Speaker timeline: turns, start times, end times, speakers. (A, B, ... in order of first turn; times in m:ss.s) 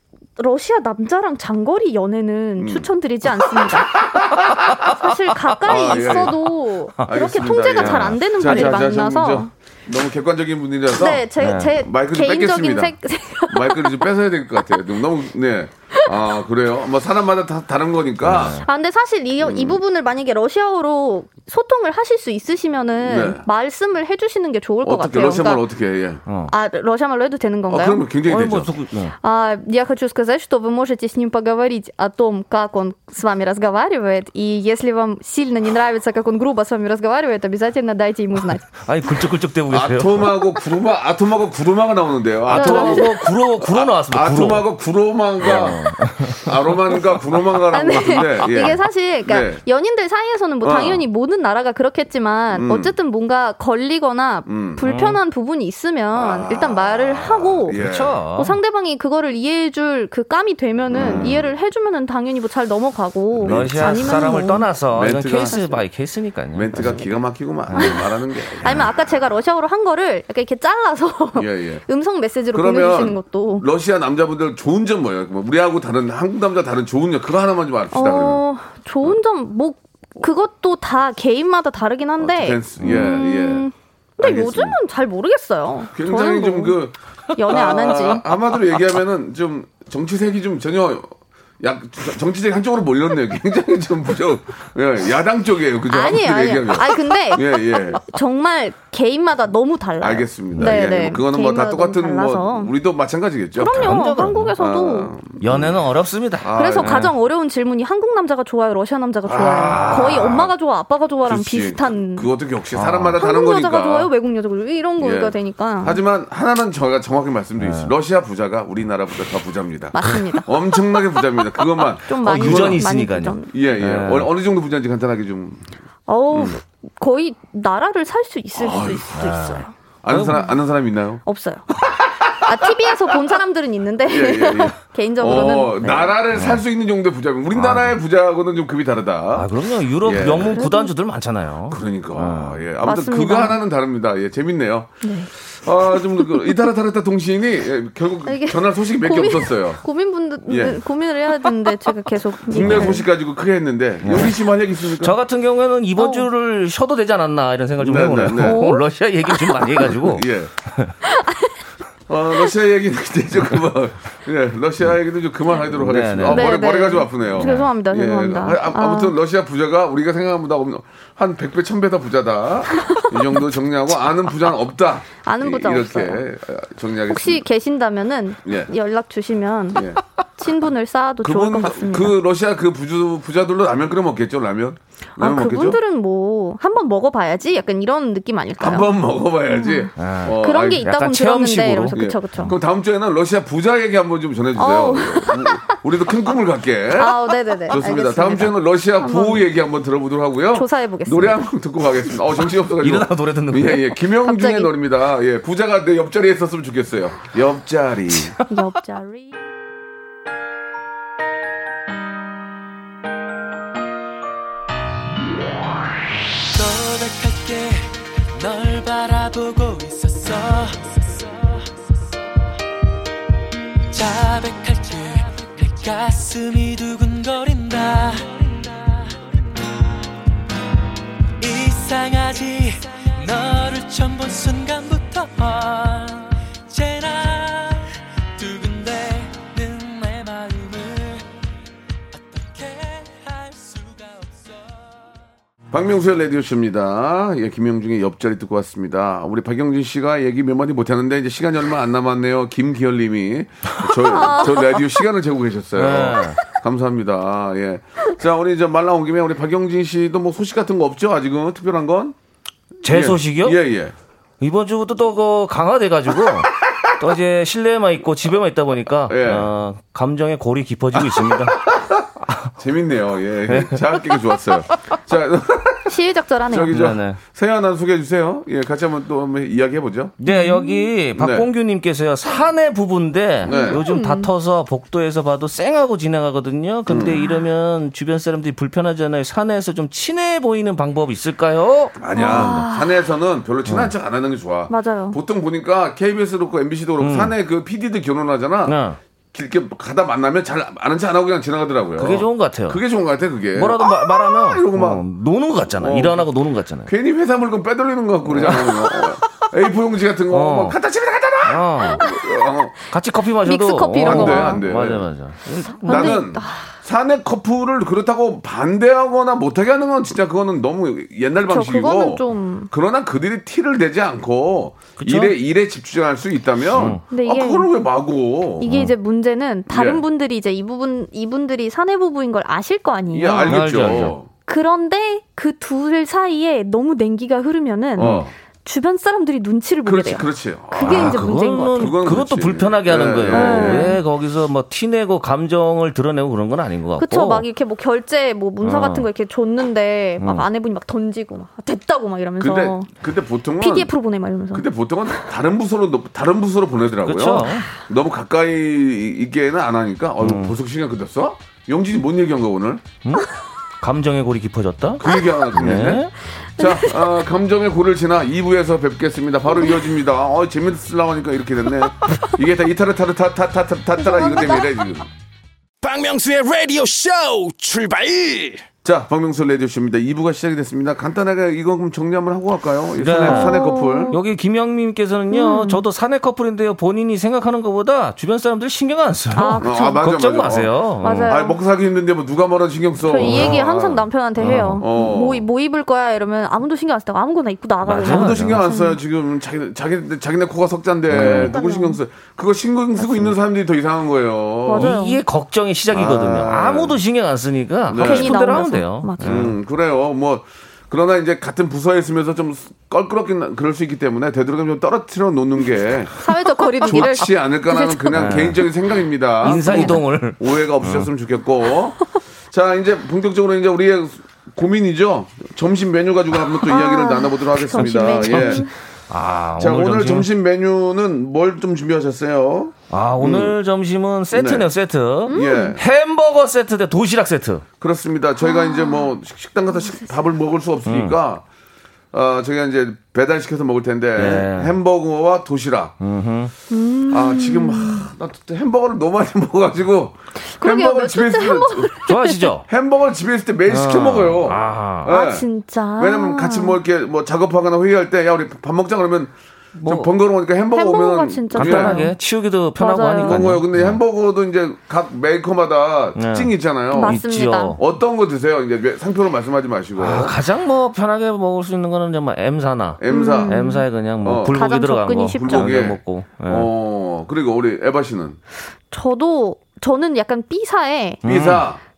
0:00.4-0:09.5 A
0:02.6-0:02.9 B
0:03.6-0:04.9 B
0:05.6-0:06.4 B
0:05.7-0:06.3 C
0:07.0-0:13.0 B
0:07.8-0:08.9 C
0:11.0-0:14.1 A
0:11.4-0:11.8 C
0:13.5-0:18.6 B
0:18.2-0:18.6 C
0:18.6-0:25.6 A
0:19.4-0:19.8 B
0:23.0-0:23.4 B
0:24.8-0:26.2 B
0:26.3-0:26.5 C
0:26.5-0:28.1 A
0:27.7-0:28.7 B
0:28.3-0:29.2 C
0:29.2-0:38.7 A
0:38.7-0:40.4 C
0:39.7-0:49.6 B
0:42.5-0:44.7 C
0:42.5-0:43.2 A
0:45.4-0:46.5 C
0:47.7-0:57.8 A
0:50.6-0:51.0 B
0:52.5-0:52.9 B
0:54.5-0:54.8 B
0:54.8-0:55.2 C
0:56.1-0:58.2 B
0:57.7-0:58.6 C
0:58.3-1:04.7 A
1:00.9-1:01.5 B
1:01.0-1:01.4 C
1:03.4-1:04.3 B
1:03.4-1:07.0 C
1:04.9-1:05.6 B
1:05.5-1:05.8 A
1:06.5-1:09.2 B
1:07.7-1:08.0 C
1:08.6-1:13.7 A
1:11.4-1:11.8 B
1:12.5-1:18.4 B
1:17.9-1:26.8 A
1:22.2-1:23.7 B
1:24.2-1:24.8 B
1:25.9-1:27.0 B
1:27.4-1:28.3 A
1:27.5-1:38.0 B
1:35.9-1:42.7 A
1:40.0-1:44.0 B
1:43.6-1:45.1 A
1:43.7-1:44.5 C
1:44.6-1:45.8 B
1:45.4-1:47.1 C
1:46.4-1:47.0 B
1:46.6-1:52.3 A
1:49.3-1:50.5 B
1:49.4-1:50.4 C
1:51.2-1:54.1 B
1:52.8-1:53.2 C
1:53.2-1:56.0 A
1:55.0-2:02.8 B
1:57.6-1:57.9 C
1:59.9-2:00.8 A
2:00.0-2:00.4 C
2:02.1-2:03.5 A
2:02.2-2:04.3 C
2:03.5-2:05.6 B
2:06.1-2:09.7 A
2:06.3-2:06.6 B
2:08.6-2:09.2 B
2:09.2-2:10.5 C
2:10.0-2:11.2 B
2:11.3-2:11.7 A
2:11.8-2:13.0 B
2:12.4-2:16.1 A
2:14.1-2:19.5 B
2:16.3-2:16.6 C
2:17.6-2:18.0 C
2:19.3-2:22.6 C
2:20.0-2:20.6 B
2:20.5-2:20.9 A
2:21.7-2:29.8 B
2:22.8-2:23.6 A
2:25.0-2:25.3 A
2:25.9-2:26.6 A
2:28.3-2:33.0 A
2:30.5-2:30.8 B
2:32.5-2:35.2 B
2:32.5-2:33.0 C
2:34.0-2:34.4 C
2:35.0-2:40.9 C
2:36.0-2:36.3 A
2:37.8-2:38.7 B
2:38.3-2:39.7 A
2:39.8-2:40.5 B
2:41.0-2:41.6 A
2:42.1-2:57.4 B
2:45.7-2:46.5 C
2:46.3-2:49.2 A
2:47.4-2:47.7 C
2:52.8-2:53.2 A
2:55.2-2:56.2 A
2:57.1-2:59.8 A
2:58.4-2:58.7 B
2:59.8-3:00.0 B
3:00.4-3:02.2 A
3:01.2-3:05.8 B
3:05.2-3:08.9 A
3:08.6-3:10.9 B
3:09.5-3:12.5 A
3:10.0-3:12.0 C
3:11.9-3:28.4 B
3:14.6-3:15.8 A
3:17.0-3:19.5 A
3:20.5-3:21.4 A
3:22.8-3:23.9 C
3:24.2-3:24.7 A
3:28.5-3:29.4 A
3:36.5-3:42.2 D
3:43.9-3:49.6 D
3:51.4-4:01.3 D
4:02.1-4:05.1 D
4:05.7-4:22.2 B
4:14.0-4:14.8 A
4:15.8-4:16.4 C
4:22.8-4:23.6 C
4:22.8-4:23.9 B
4:24.4-4:31.6 C
4:29.1-4:29.5 B
4:30.9-4:36.0 B
4:33.5-4:34.2 C
4:35.9-4:36.7 A
4:36.5-4:40.2 B
4:36.7-4:37.2 C
4:40.2-4:52.6 C
4:40.3-4:40.9 A
4:41.2-4:41.5 B
4:43.4-4:43.8 B
4:43.5-4:44.3 A
4:46.9-4:47.2 B
4:47.1-4:47.4 A
4:52.0-4:58.8 B
4:52.1-4:53.0 A
4:53.7-4:53.9 C
4:54.7-4:55.2 A
4:57.0-4:57.3 C
4:58.7-4:59.0 C
4:59.3-5:05.0 B
5:02.0-5:02.8 C
5:03.5-5:06.9 C
5:05.7-5:06.3 B
5:06.9-5:12.8 B
5:08.2-5:08.9 C
5:10.3-5:10.8 C
5:11.4-5:12.0 C
5:12.9-5:16.2 C
5:13.4-5:14.6 A
5:14.0-5:15.1 B
5:15.8-5:16.7 A
5:15.8-5:28.7 B
5:21.4-5:22.7 A
5:25.0-5:25.4 C
5:26.7-5:27.0 C
5:27.1-5:27.7 A
5:28.6-5:33.6 A
5:28.7-5:28.9 C
5:29.7-5:30.0 B
5:33.1-5:34.3 B
5:33.5-5:34.1 C
5:34.5-5:42.0 A
5:38.0-5:38.3 B
5:38.0-5:38.2 C
5:39.8-5:44.0 B
5:40.8-5:47.5 C
5:43.3-5:44.0 A
5:47.0-5:52.9 A
5:48.6-5:49.1 C
5:50.2-5:50.5 C
5:52.4-5:53.9 B
5:53.6-5:54.7 A
5:54.5-6:02.8 B
5:57.0-5:57.7 C
6:00.2-6:00.5 C
6:03.8-6:05.0 C
6:05.0-6:15.1 B
6:05.6-6:06.1 C
6:06.6-6:07.2 A
6:09.5-6:09.8 A
6:14.0-6:14.8 A
6:15.8-6:18.6 E
6:18.8-6:24.2 B
6:23.0-6:31.3 C
6:23.2-6:24.2 A
6:25.3-6:25.8 A
6:29.4-6:30.0 A
6:29.6-6:30.7 B
6:31.0-6:31.6 A
6:31.3-6:34.0 B
6:33.1-6:39.0 A
6:33.2-6:33.6 C
6:34.4-6:34.8 C
6:34.8-6:35.4 B
6:37.8-6:38.6 C
6:37.9-6:44.9 B
6:41.1-6:41.5 C
6:41.1-6:42.0 A
6:43.0-6:43.3 A
6:44.7-6:45.2 A
6:44.7-6:49.5 C
6:45.9-6:47.0 B
6:47.9-6:48.4 B
6:48.0-6:49.4 A
6:49.2-6:56.2 B
6:56.2-6:58.4 A
6:56.8-7:08.7 B
6:58.1-6:58.6 C
6:59.4-7:01.1 C
6:59.4-7:00.0 A
7:06.6-7:08.7 A
7:07.8-7:10.3 C
7:09.6-7:13.6 B
7:12.9-7:17.6 C
7:14.3-7:14.7 B
7:15.3-7:15.8 B
7:15.3-7:15.8 A
7:17.8-7:21.4 B
7:18.4-7:19.1 A
7:20.9-7:21.2 C
7:22.1-7:26.0 B
7:24.2-7:24.8 C
7:26.0-7:26.5 C
7:26.7-7:28.1 A
7:27.1-7:32.0 B
7:30.4-7:32.5 A
7:32.1-7:32.7 C
7:32.7-7:35.5 B
7:33.7-7:35.1 C
7:35.1-7:36.8 A
7:36.0-7:39.3 B
7:39.8-7:40.1 C
7:39.9-7:42.0 B
7:40.7-7:42.1 A
7:41.6-7:44.0 C
7:42.8-7:43.4 A
7:43.2-7:47.2 B
7:46.2-7:47.8 C
7:46.9-7:47.8 A
7:47.8-7:50.4 B
7:50.0-7:56.7 C
7:53.0-7:53.6 B
7:53.1-7:53.8 A
7:54.2-7:54.6 B
7:54.5-7:55.7 A
7:55.4-7:58.4 B
7:58.9-8:01.2 A
8:01.2-8:01.7 C
8:01.2-8:01.8 B